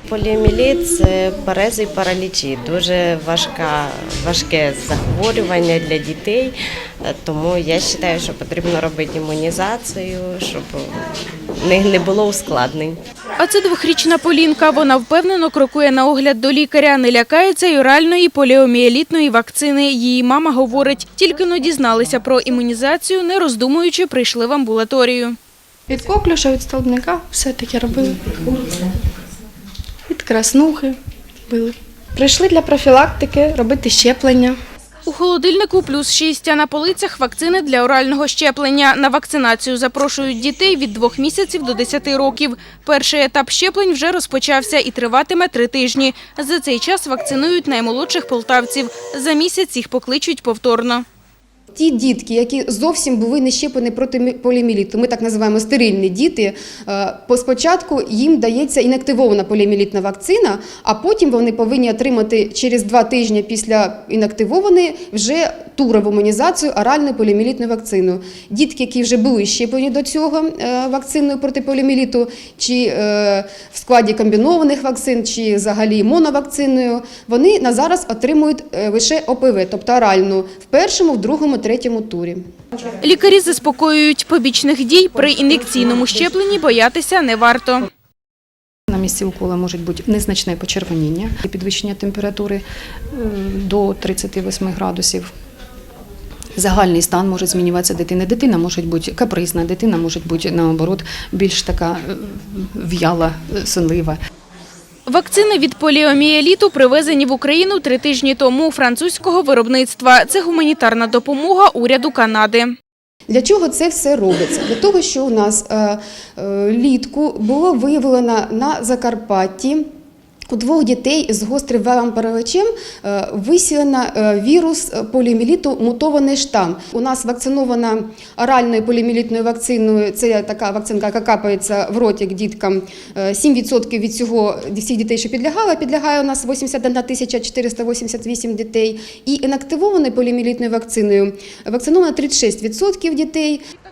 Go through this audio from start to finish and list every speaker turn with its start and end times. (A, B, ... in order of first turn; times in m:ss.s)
0:00.1-0:11.0 A
0:11.6-0:13.0 A
0:13.4-0:25.4 B
0:25.9-0:28.9 C
0:30.1-0:31.0 C
0:31.5-0:34.6 C
0:35.0-0:51.0 B
0:51.7-1:22.4 D
1:23.0-1:27.9 B
1:28.9-1:35.3 E
1:36.6-1:44.2 E
1:45.1-1:52.7 B
1:53.3-1:59.8 D
2:00.5-2:23.6 D